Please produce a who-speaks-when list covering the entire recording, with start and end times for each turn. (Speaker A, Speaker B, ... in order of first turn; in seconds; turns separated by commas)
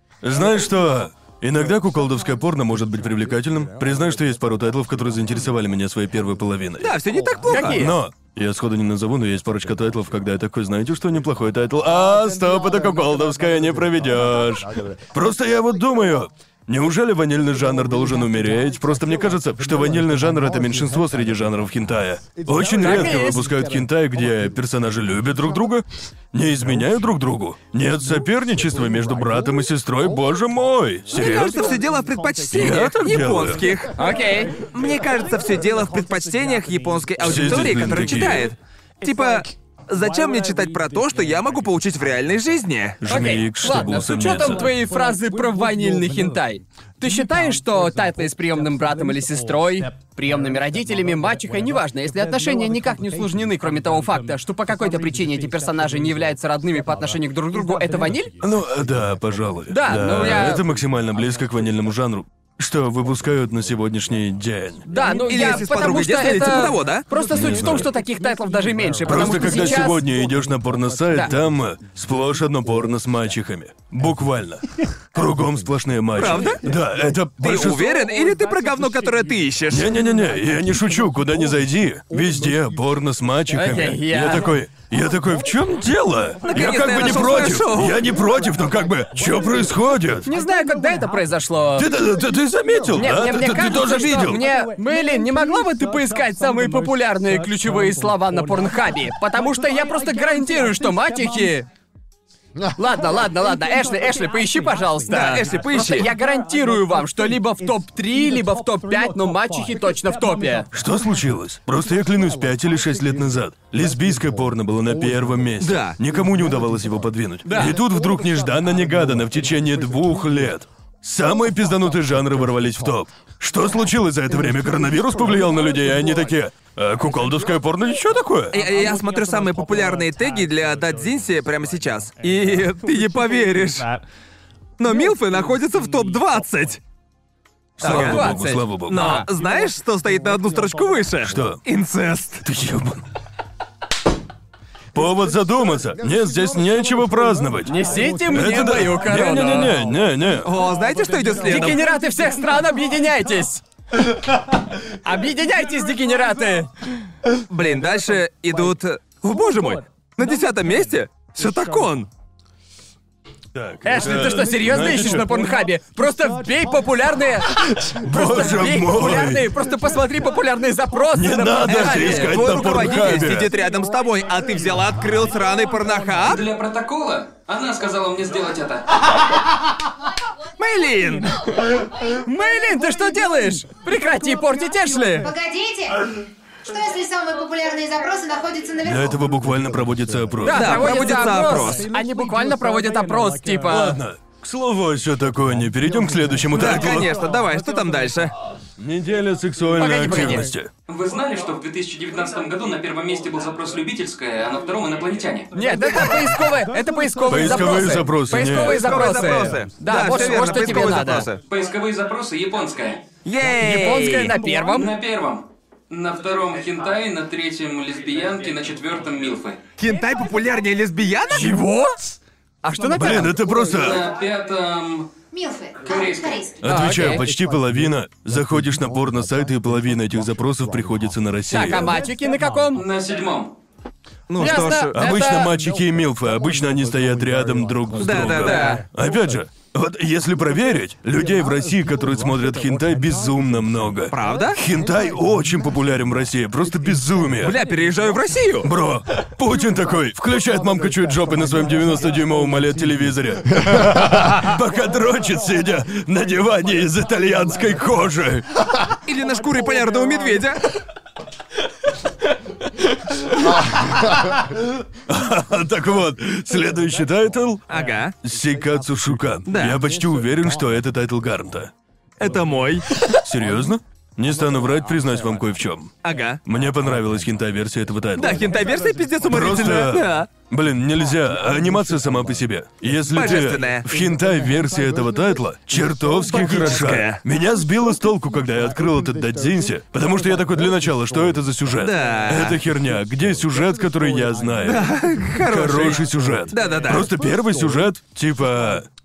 Speaker A: 0.2-7.0, Speaker B: 6.8-7.8, Speaker C: 7.5-8.0, Speaker A: 7.6-31.7, Speaker C: 22.7-23.5, Speaker B: 31.1-33.9, Speaker A: 32.5-33.7, Speaker C: 34.0-34.5, Speaker B: 34.6-43.2, Speaker A: 37.2-38.5, Speaker A: 43.0-44.7, Speaker C: 43.1-58.3, Speaker A: 58.4-64.9, Speaker C: 59.7-60.6, Speaker C: 64.9-70.0, Speaker B: 65.0-67.0, Speaker A: 67.3-67.9, Speaker A: 69.1-77.9, Speaker B: 76.2-76.6, Speaker B: 77.4-79.9, Speaker A: 79.7-90.3, Speaker C: 83.5-84.5, Speaker B: 86.5-88.0, Speaker C: 90.2-91.9, Speaker A: 91.8-94.4, Speaker C: 93.0-101.7, Speaker C: 102.8-110.7, Speaker B: 105.1-106.1, Speaker A: 110.7-128.6, Speaker B: 115.6-116.0, Speaker C: 117.5-117.8, Speaker B: 128.5-133.9, Speaker B: 134.8-136.8, Speaker A: 137.8-139.2, Speaker B: 137.8-138.2, Speaker C: 137.8-139.3, Speaker B: 138.9-142.5, Speaker A: 141.2-141.6, Speaker A: 142.4-143.0, Speaker A: 144.9-147.8, Speaker C: 147.7-149.8, Speaker A: 148.3-150.5, Speaker B: 150.4-151.8, Speaker C: 151.4-153.6, Speaker C: 155.0-156.7, Speaker B: 157.5-162.1, Speaker A: 163.5-165.5, Speaker C: 163.8-172.7, Speaker A: 167.8-169.5, Speaker A: 171.1-173.5, Speaker B: 171.7-176.4, Speaker D: 176.2-178.9, Speaker B: 180.6-181.6, Speaker C: 182.2-185.3, Speaker E: 185.2-186.1, Speaker E: 186.7-189.1, Speaker A: 188.8-190.8, Speaker C: 190.4-194.0, Speaker B: 190.5-191.9, Speaker A: 193.7-197.2, Speaker B: 196.5-198.3, Speaker A: 198.8-200.7, Speaker C: 199.8-200.5, Speaker D: 200.9-205.5, Speaker C: 205.5-211.3, Speaker A: 207.3-208.9, Speaker B: 208.4-211.4, Speaker D: 211.4-213.0, Speaker B: 213.2-214.3, Speaker C: 213.6-214.9, Speaker D: 214.7-219.6, Speaker B: 219.8-221.6, Speaker C: 221.3-223.4, Speaker A: 222.9-224.0, Speaker D: 223.8-225.1, Speaker E: 225.3-226.6, Speaker D: 225.8-226.4, Speaker A: 226.6-232.0, Speaker C: 226.6-227.3, Speaker C: 231.5-232.8, Speaker D: 232.7-233.5, Speaker B: 234.3-235.0, Speaker C: 234.4-235.5, Speaker A: 234.9-247.6, Speaker B: 238.0-238.8, Speaker C: 238.3-238.8, Speaker B: 244.1-244.6, Speaker B: 247.4-248.7, Speaker A: 248.6-258.5, Speaker B: 259.1-260.6, Speaker A: 263.1-267.6, Speaker B: 267.7-268.1, Speaker A: 268.2-271.7, Speaker B: 269.5-269.8, Speaker B: 272.2-273.0, Speaker A: 273.1-275.9, Speaker B: 276.0-276.4, Speaker A: 276.4-278.5, Speaker B: 278.2-280.3, Speaker A: 279.3-298.9, Speaker B: 283.1-283.9, Speaker B: 286.3-287.2, Speaker B: 291.8-292.6, Speaker B: 294.7-297.1